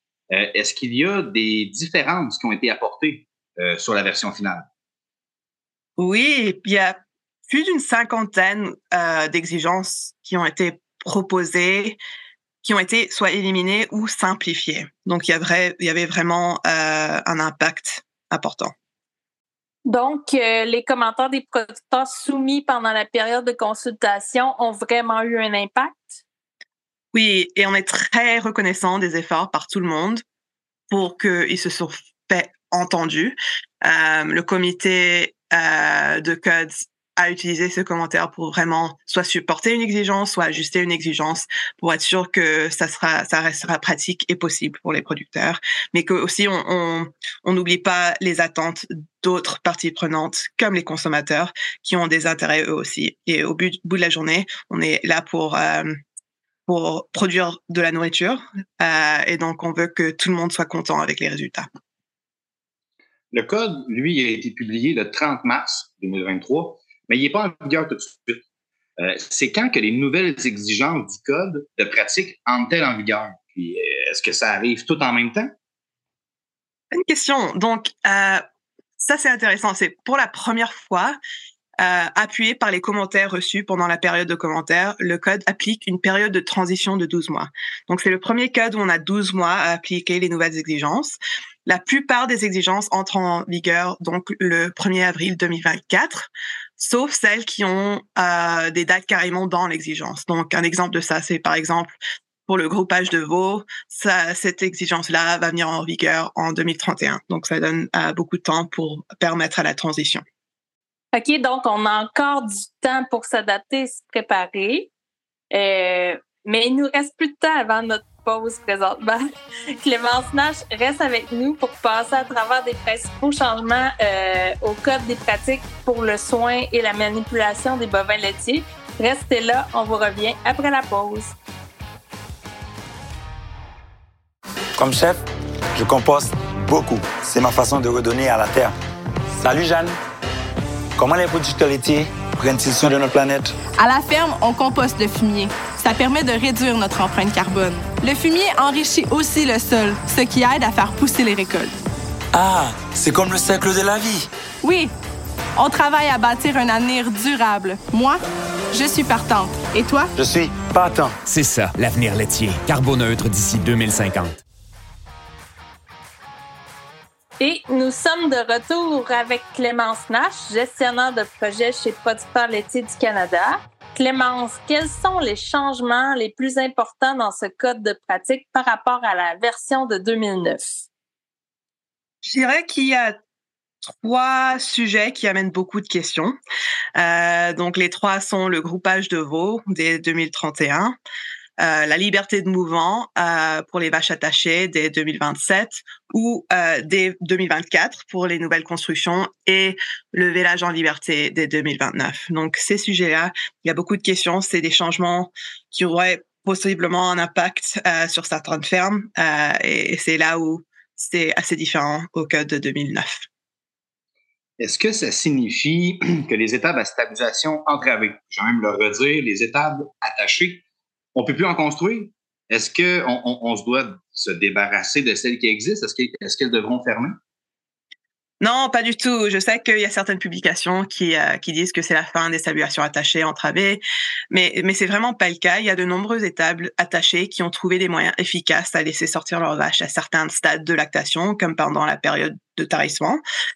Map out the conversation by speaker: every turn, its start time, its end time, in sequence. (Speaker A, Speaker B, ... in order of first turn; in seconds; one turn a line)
Speaker A: 0.3-4.7
Speaker B: 6.0-12.0
Speaker B: 12.6-18.7
Speaker C: 19.9-26.2
Speaker B: 27.1-30.2
Speaker B: 30.9-56.0
Speaker B: 56.7-61.7
Speaker A: 63.3-68.4
Speaker A: 69.0-75.5
Speaker B: 76.9-78.4
Speaker B: 79.0-81.2
Speaker B: 81.8-102.0
Speaker B: 102.5-110.2
Speaker C: 111.1-114.9
Speaker C: 115.5-131.3
Speaker D: 134.8-135.2
Speaker D: 135.8-138.8
Speaker D: 139.4-140.0
Speaker D: 141.0-143.6
Speaker E: 143.8-151.8
Speaker D: 152.3-154.3
Speaker E: 154.6-154.9
Speaker E: 155.6-158.2
Speaker E: 158.7-160.1
Speaker D: 160.2-161.2
Speaker F: 161.3-164.4
Speaker C: 167.4-180.8
Speaker B: 182.2-183.2
Speaker B: 183.8-186.3
Speaker B: 187.0-191.0
Speaker B: 191.6-213.3
Speaker A: 214.6-220.6
Speaker A: 221.2-227.2
Speaker B: 228.4-243.2